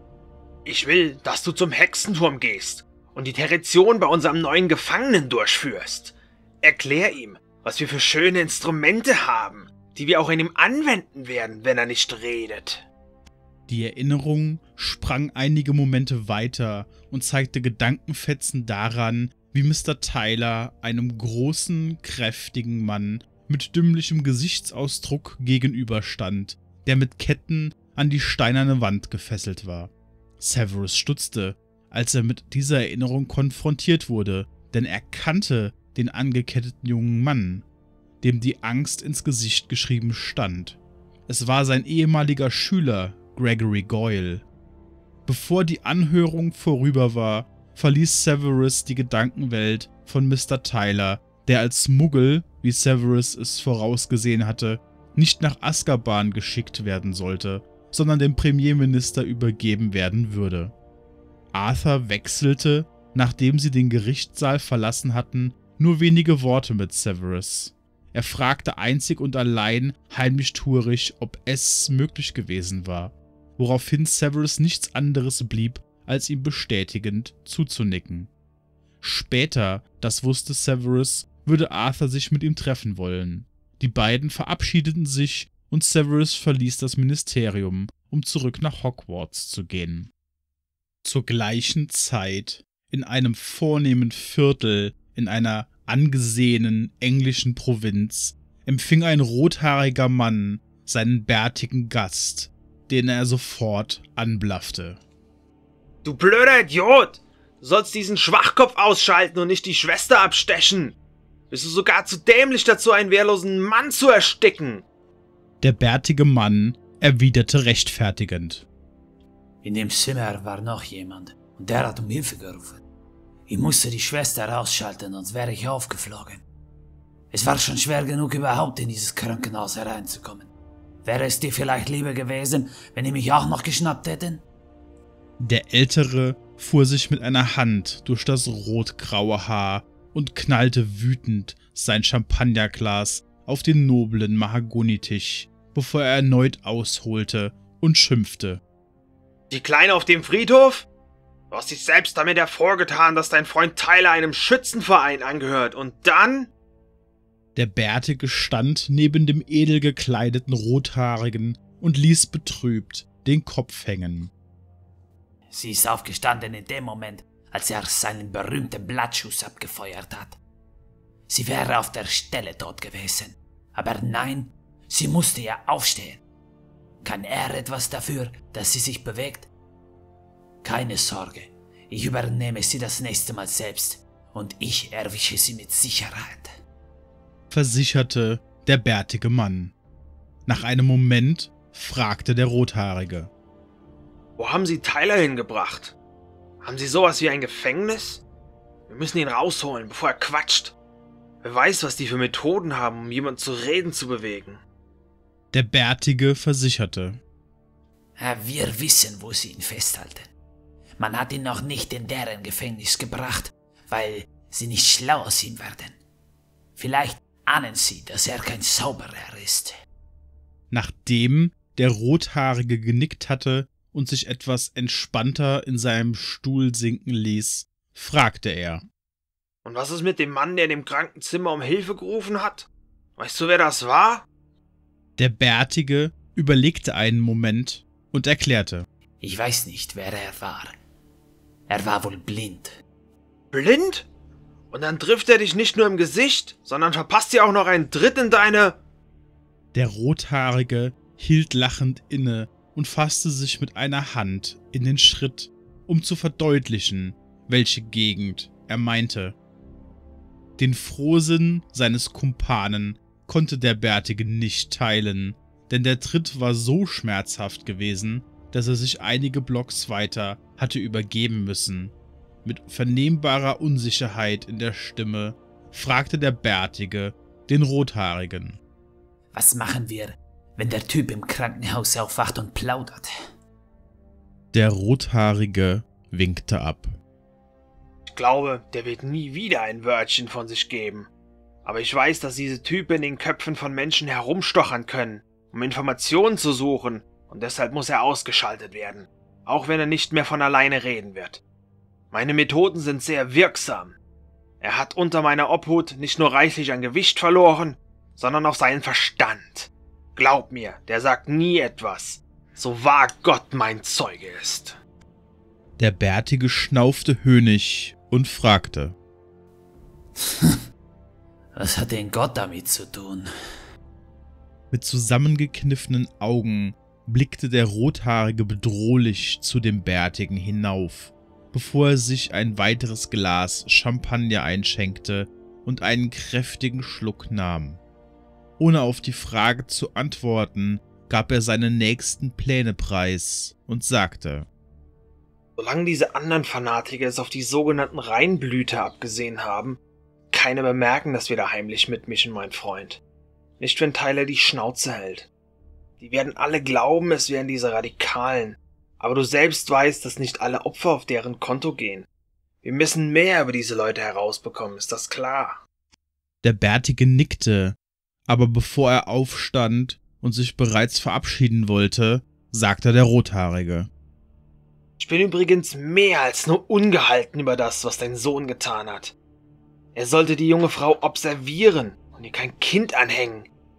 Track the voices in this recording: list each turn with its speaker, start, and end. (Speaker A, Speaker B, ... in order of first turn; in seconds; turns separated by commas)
Speaker A: 0.6-12.8, Speaker B: 13.7-37.6, Speaker B: 38.2-44.4, Speaker B: 45.2-60.7, Speaker B: 61.5-78.3, Speaker B: 79.0-90.1, Speaker B: 91.0-105.0, Speaker A: 106.0-111.0, Speaker A: 111.5-114.8, Speaker B: 115.6-118.7, Speaker C: 119.6-122.8, Speaker C: 123.5-126.4, Speaker C: 127.3-130.5, Speaker C: 131.0-134.4, Speaker B: 135.4-148.6, Speaker A: 149.5-150.9, Speaker A: 151.5-156.5, Speaker B: 157.5-164.3, Speaker C: 165.5-170.4, Speaker C: 171.3-176.2, Speaker C: 177.0-179.5, Speaker C: 180.6-186.5, Speaker B: 187.5-189.7, Speaker B: 190.5-193.3, Speaker A: 194.4-195.9, Speaker A: 196.6-198.2, Speaker A: 198.9-200.8, Speaker A: 201.4-204.6, Speaker B: 205.5-207.2, Speaker C: 208.2-210.3, Speaker C: 211.0-215.9, Speaker C: 216.8-219.7, Speaker B: 220.7-228.8, Speaker A: 229.6-234.3, Speaker B: 235.2-238.8, Speaker C: 239.2-240.7, Speaker C: 241.7-242.7, Speaker A: 243.5-244.1, Speaker A: 244.7-248.8, Speaker B: 249.7-259.4, Speaker B: 260.6-278.6, Speaker C: 279.3-283.1, Speaker B: 284.5-286.9, Speaker A: 288.1-291.1, Speaker A: 291.6-301.4, Speaker A: 302.1-304.0, Speaker A: 304.6-314.8, Speaker B: 315.8-318.9, Speaker C: 321.5-323.3, Speaker B: 324.7-337.8, Speaker B: 338.6-344.5, Speaker A: 345.6-349.8, Speaker A: 350.3-353.0, Speaker A: 353.6-355.3, Speaker A: 356.0-362.1, Speaker A: 362.6-365.6, Speaker B: 366.4-373.9, Speaker A: 375.0-379.1, Speaker A: 379.9-383.5